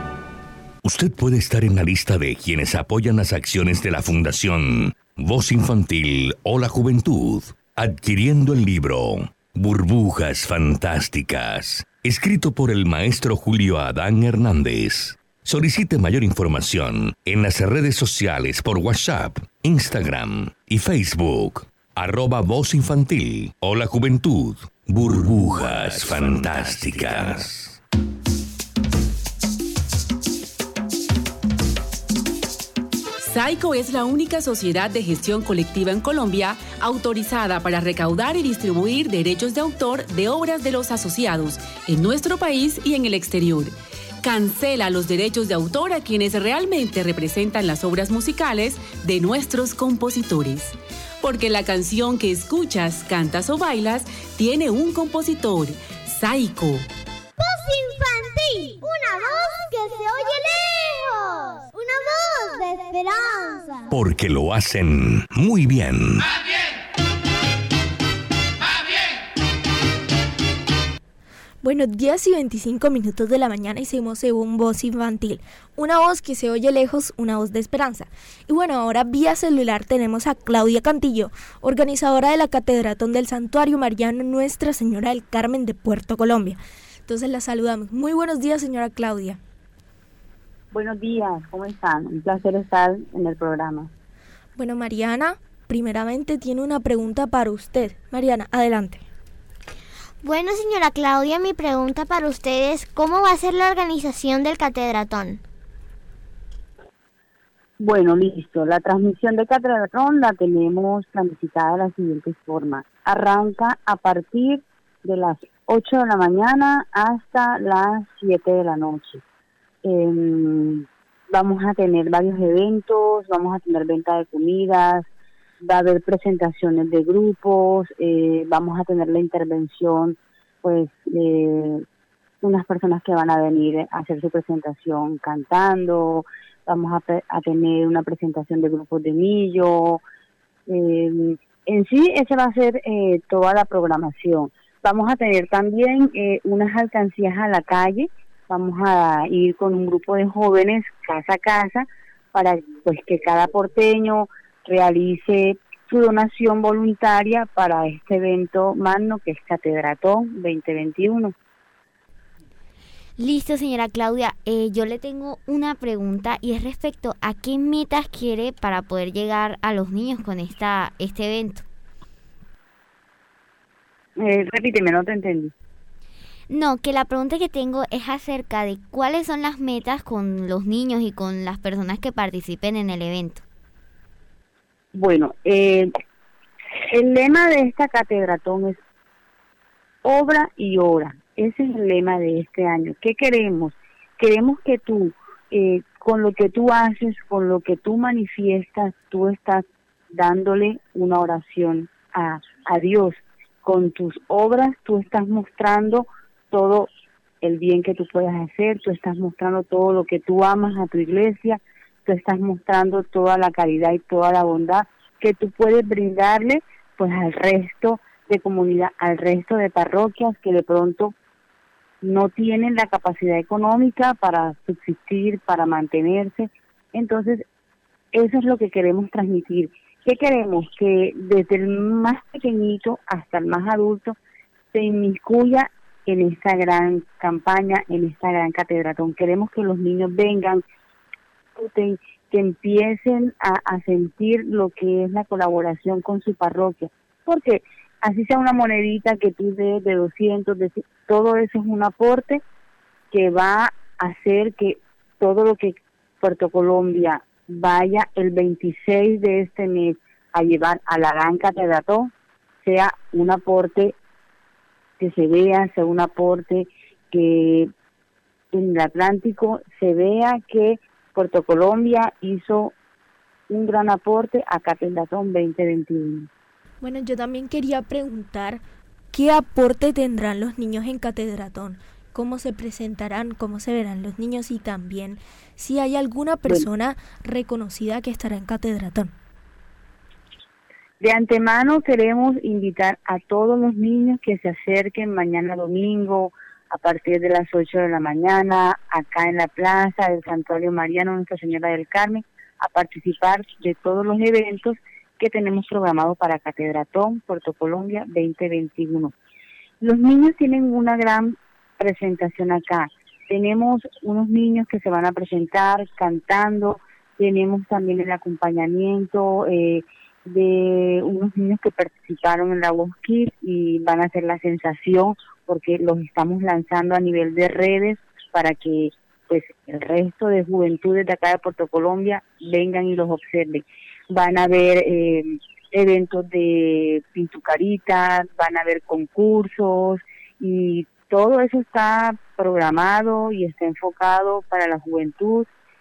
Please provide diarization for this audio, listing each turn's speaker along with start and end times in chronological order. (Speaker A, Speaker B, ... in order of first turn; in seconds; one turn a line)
Speaker A: 0.8-27.8
Speaker B: 33.2-56.9
Speaker C: 57.4-63.9
Speaker A: 63.9-66.3
Speaker D: 71.6-89.4
Speaker E: 90.7-93.9
Speaker D: 94.5-99.0
Speaker F: 100.2-105.4
Speaker E: 107.8-119.2
Speaker E: 119.8-125.1
Speaker E: 125.6-131.8
Speaker E: 132.4-140.0
Speaker E: 140.7-161.3
Speaker G: 163.2-171.6
Speaker E: 174.2-175.5
Speaker G: 176.5-183.4
Speaker E: 184.9-185.9
Speaker E: 186.9-188.8
Speaker E: 190.0-206.9
Speaker E: 207.4-221.1
Speaker E: 222.0-227.4
Speaker E: 228.1-234.2
Speaker E: 234.7-240.6
Speaker E: 241.5-252.4
Speaker E: 253.1-263.9
Speaker E: 265.0-267.7
Speaker E: 268.5-272.7
Speaker E: 273.5-276.3
Speaker D: 276.8-289.1
Speaker E: 291.0-309.1
Speaker E: 309.8-345.5